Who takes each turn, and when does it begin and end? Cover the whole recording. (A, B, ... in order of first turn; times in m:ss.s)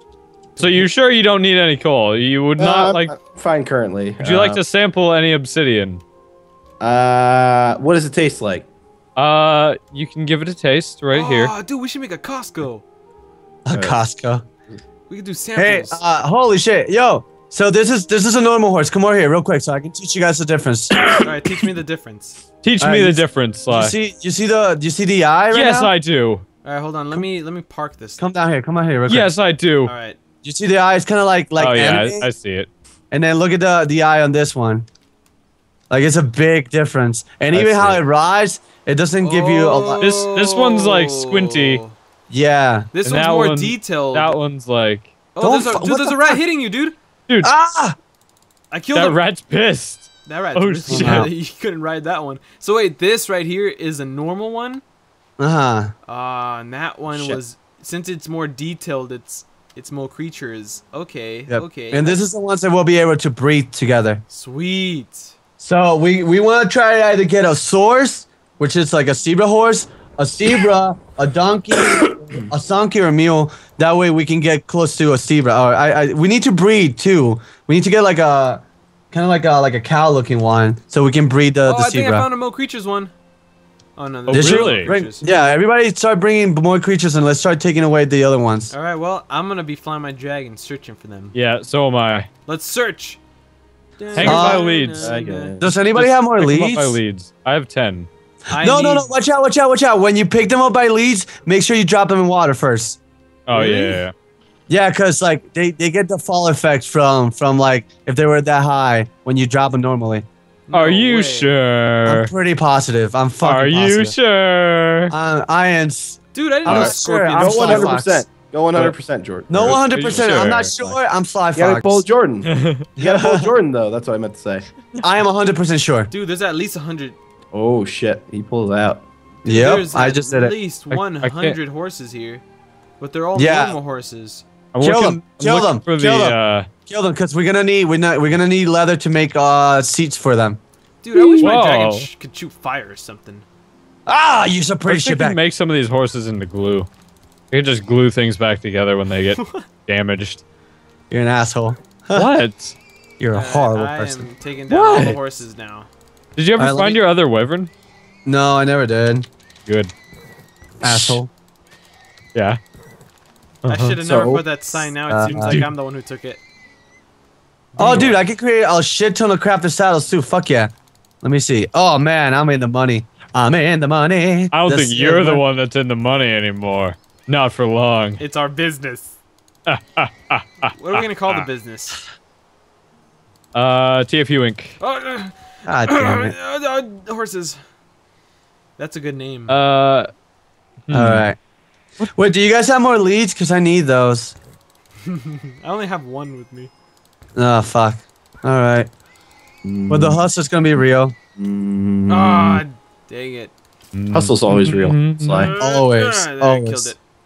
0:00.6-0:00.9 A
0:00.6-0:03.1 B
0:02.6-0:04.6 C
0:04.2-0:06.0 B
0:06.8-0:08.7 C
0:09.2-0:11.5 B
0:11.1-0:12.8 A
0:13.6-0:14.4 D
0:13.7-0:14.0 C
0:15.1-0:16.0 A
0:15.6-0:21.1 D
0:21.2-0:22.4 A
0:22.6-0:23.9 B
0:22.8-0:25.9 D
0:25.5-0:26.4 B
0:26.6-0:28.2 A
0:28.2-0:29.3 D
0:29.1-0:29.9 B
0:29.8-0:30.2 A
0:30.4-0:32.3 D
0:31.6-0:32.7 B
0:33.1-0:34.8 D
0:35.9-0:40.0 D
0:37.5-0:38.0 B
0:39.2-0:42.0 A
0:40.0-0:41.8 B
0:42.3-0:42.9 D
0:42.9-0:44.4 A
0:43.0-0:45.1 B
0:45.3-0:46.9 A
0:45.4-0:46.4 D
0:47.4-0:48.0 D
0:48.7-0:49.2 A
0:48.9-0:51.3 B
0:50.2-0:54.8 A
0:50.9-0:51.3 D
0:55.4-0:55.9 D
0:56.0-1:02.2 A
0:57.1-0:57.4 D
1:01.5-1:04.2 D
1:04.3-1:05.3 A
1:05.6-1:22.3 D
1:12.1-1:12.4 C
1:21.6-1:23.1 A
1:24.0-1:25.3 A
1:24.3-1:25.0 B
1:24.3-1:28.7 D
1:28.7-1:31.3 A
1:31.3-1:32.3 B
1:32.4-1:33.2 A
1:34.0-1:35.6 A
1:34.1-1:35.2 B
1:34.2-1:34.6 D
1:35.0-1:35.8 C
1:35.6-1:37.0 D
1:35.9-1:38.1 B
1:38.5-1:39.1 A
1:38.6-1:43.0 D
1:43.5-1:44.1 B
1:43.5-1:44.0 A
1:44.7-1:50.2 D
1:50.7-1:51.5 A
1:50.7-1:52.3 B
1:52.0-1:54.1 D
1:53.4-1:55.1 B
1:55.1-1:58.2 D
1:56.3-1:58.0 A
1:56.7-2:01.0 C
1:59.5-2:02.0 D
1:59.9-2:00.8 B
2:01.5-2:04.7 C
2:02.4-2:02.8 B
2:03.0-2:03.5 D
2:05.0-2:06.1 D
2:06.1-2:07.2 A
2:07.5-2:09.0 C
2:09.4-2:12.4 A
2:09.4-2:10.5 D
2:10.9-2:11.6 B
2:13.0-2:14.4 A
2:13.3-2:13.8 D
2:14.7-2:16.7 B
2:14.8-2:20.6 D
2:21.0-2:23.4 A
2:21.1-2:21.5 D
2:21.4-2:22.1 B
2:24.0-2:25.4 D
2:24.8-2:26.9 B
2:27.5-2:30.4 B
2:29.3-2:29.7 A
2:31.1-2:32.5 D
2:32.1-2:32.8 B
2:33.2-2:35.2 D
2:33.3-2:35.9 A
2:34.7-2:35.2 B
2:36.4-2:37.7 B
2:36.6-2:37.0 D
2:38.2-2:39.3 D
2:39.7-2:39.9 B
2:40.8-2:41.3 D
2:40.8-2:41.2 B
2:42.3-2:42.6 B
2:43.6-2:43.9 B
2:43.6-2:46.4 A
2:44.0-2:44.4 C
2:45.1-2:45.6 D
2:45.3-2:45.7 B
2:47.8-2:55.4 D
2:47.8-2:48.1 A
2:47.8-2:48.2 B
2:54.5-2:58.2 B
2:58.2-2:59.2 A
2:59.7-3:01.5 B
3:00.7-3:02.0 A
3:03.5-3:04.8 B
3:04.8-3:07.6 A
3:05.6-3:06.4 D
3:08.8-3:09.6 A
3:09.5-3:10.1 B
3:10.9-3:11.2 B
3:10.9-3:11.4 D
3:12.0-3:14.4 D
3:15.0-3:16.7 A
3:17.3-3:18.9 D
3:19.6-3:20.3 C
3:19.9-3:21.2 D
3:21.4-3:22.6 C
3:22.1-3:23.5 A
3:23.9-3:25.5 B
3:24.1-3:25.5 C
3:25.4-3:27.0 A
3:25.6-3:26.9 D